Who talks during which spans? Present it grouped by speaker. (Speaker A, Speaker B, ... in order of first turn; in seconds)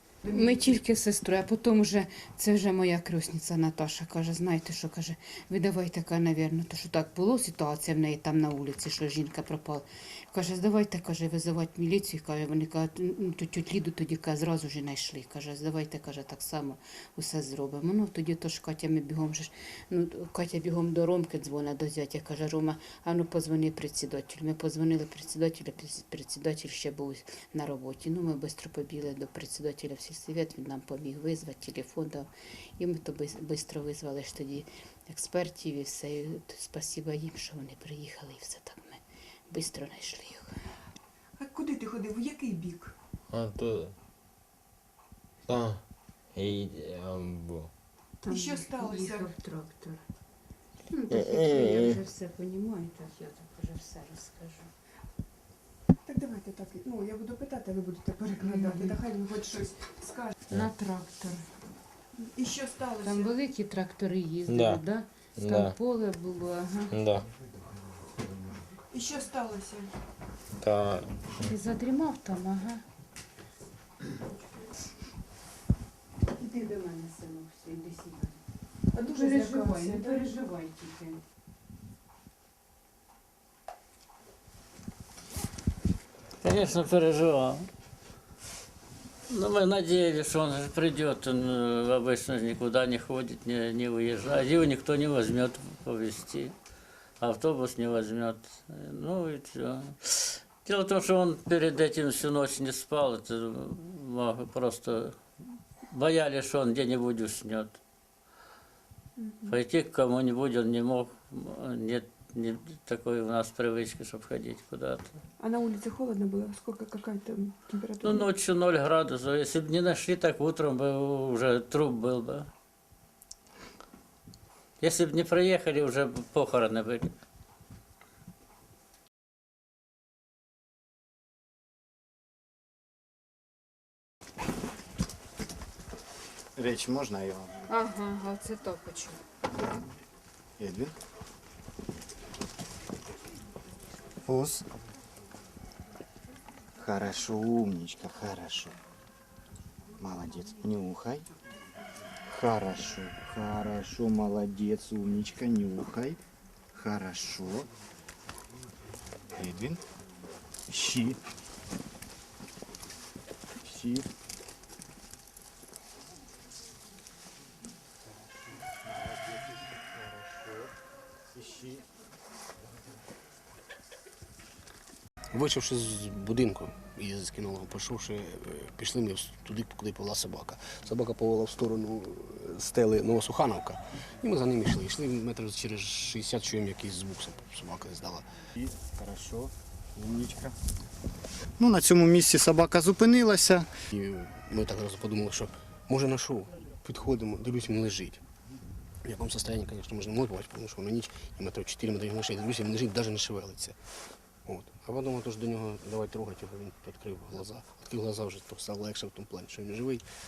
Speaker A: 0.2-40.5, 48.2-50.0, 50.9-54.7, 58.4-59.0, 60.5-61.4, 63.0-67.0, 71.4-72.8, 76.3-78.4, 79.0-81.2, 137.7-139.2
Speaker B: 41.4-42.9, 48.2-49.3, 56.0-60.3, 62.2-63.3, 68.9-69.9, 78.9-80.2, 109.2-109.5, 115.4-118.3
Speaker C: 43.3-44.0, 45.5-47.7, 51.1-52.0, 64.5-64.8, 65.4-65.8, 66.9-67.3, 70.6-71.5
Speaker D: 86.4-87.7, 89.3-96.5, 97.2-107.8, 109.4-115.2, 118.0-122.5, 124.8-127.1
Speaker E: 136.6-137.6, 140.6-140.9, 144.2-144.7, 146.8-148.8, 150.0-151.3, 152.3-156.2, 156.7-157.7, 159.3-159.8, 160.7-161.2, 163.6-164.1, 168.6-170.7, 171.3-171.8, 188.6-190.5, 191.6-193.7
Speaker F: 175.3-188.2, 193.9-198.2, 199.0-203.8, 204.4-210.0